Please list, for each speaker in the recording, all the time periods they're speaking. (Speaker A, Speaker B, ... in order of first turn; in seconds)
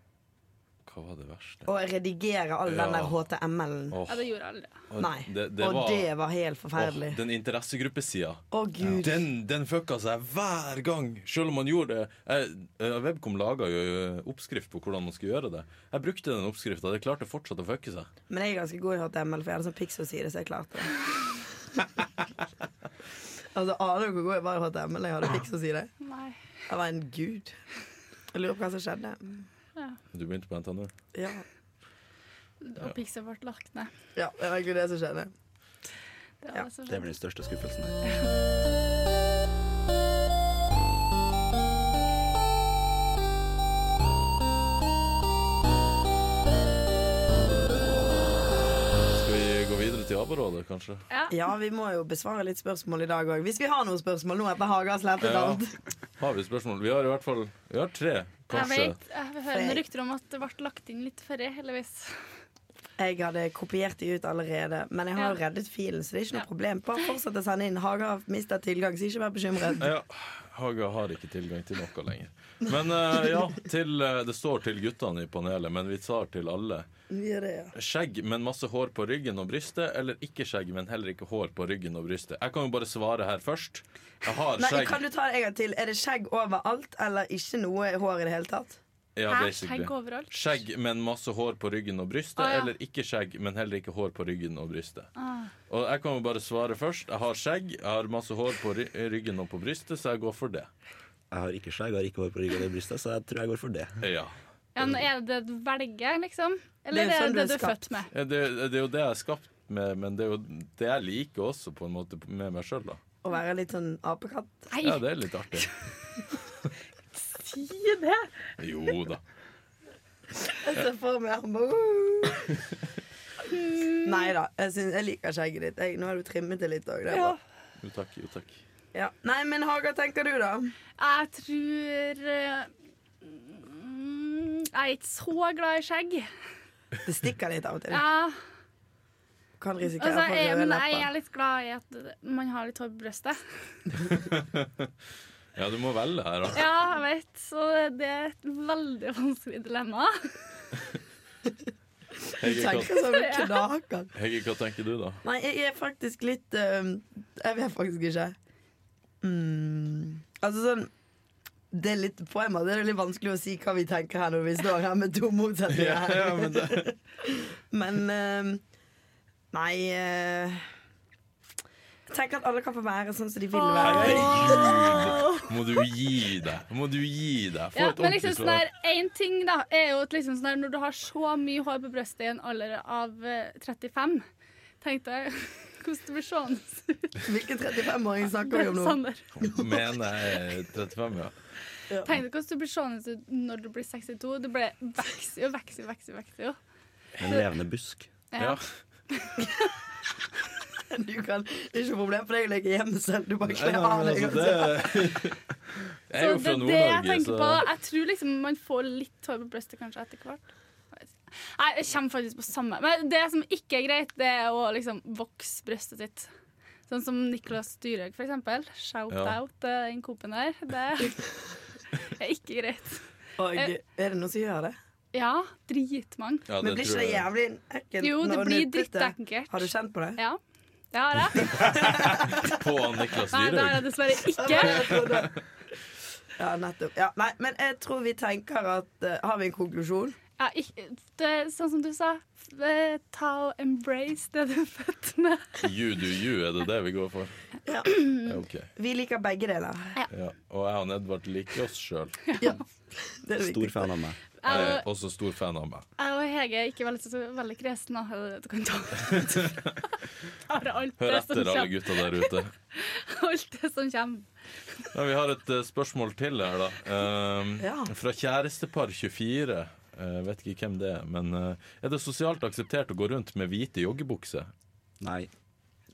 Speaker A: 0.8-1.7, 2.7-3.2, 3.9-4.2, 4.9-6.1, 6.8-18.1, 30.1-30.9, 49.1-51.0, 55.2-55.6, 56.2-59.0, 69.8-76.9, 77.7-85.0, 89.2-95.1, 95.7-100.7, 104.0-104.4, 108.1-113.0, 114.8-115.7, 118.6-119.2, 127.8-128.6, 144.1-144.9, 145.6-146.6, 152.4-153.2, 154.1-155.2, 165.7-166.9, 173.8-178.6, 189.3-191.3, 198.4-198.6, 203.4-205.4, 206.1-207.6, 219.1-219.3, 226.5-227.3, 231.6-233.9, 234.6-235.4, 245.6-247.3, 248.0-248.7, 250.1-252.2, 254.4-255.8, 259.0-259.8, 261.0-262.5, 264.9-274.5
Speaker B: 1.6-4.0, 5.0-7.2, 8.5-9.2, 18.3-22.1, 23.5-25.9, 26.7-27.5, 28.3-29.5, 31.1-31.4, 34.1-35.3, 51.3-55.7, 59.5-59.8, 63.0-69.9, 77.1-77.7, 84.6-88.8, 106.9-107.8, 113.2-114.7, 120.6-122.6, 124.0-127.3, 128.9-130.7, 137.0-138.0, 139.6-141.1, 152.4-154.1, 155.2-158.3, 159.2-160.9, 161.7-168.6, 169.5-170.7, 172.1-175.0, 187.2-189.7, 200.9-205.1, 223.4-224.7, 226.6-230.2, 231.4-232.6, 234.3-235.4, 236.4-240.2, 247.6-250.0, 252.4-253.9, 267.6-267.9
Speaker C: 4.1-4.8, 26.0-26.4, 32.6-33.9, 36.4-37.1, 51.1-51.4, 58.5-62.2, 89.3-90.4, 92.4-92.7, 95.2-95.5, 104.7-108.1, 114.7-115.7, 117.2-118.4, 123.5-124.3, 127.1-127.4, 131.0-132.7, 133.2-136.3, 137.9-138.4, 139.8-143.4, 146.5-150.3, 152.9-153.7, 173.5-175.5, 177.7-184.2, 184.8-187.2, 188.3-189.2, 192.0-196.6, 198.3-198.6, 199.1-199.5, 206.2-210.4, 210.9-216.3, 216.9-221.2, 221.9-223.7, 225.1-226.5, 228.0-230.4, 230.9-231.7, 233.3-235.2, 240.4-245.6, 252.3-252.6, 254.4-254.8, 256.0-259.9, 260.5-264.8
Speaker D: 36.9-38.0, 101.3-104.0, 197.2-198.1, 253.4-254.2, 275.0-275.3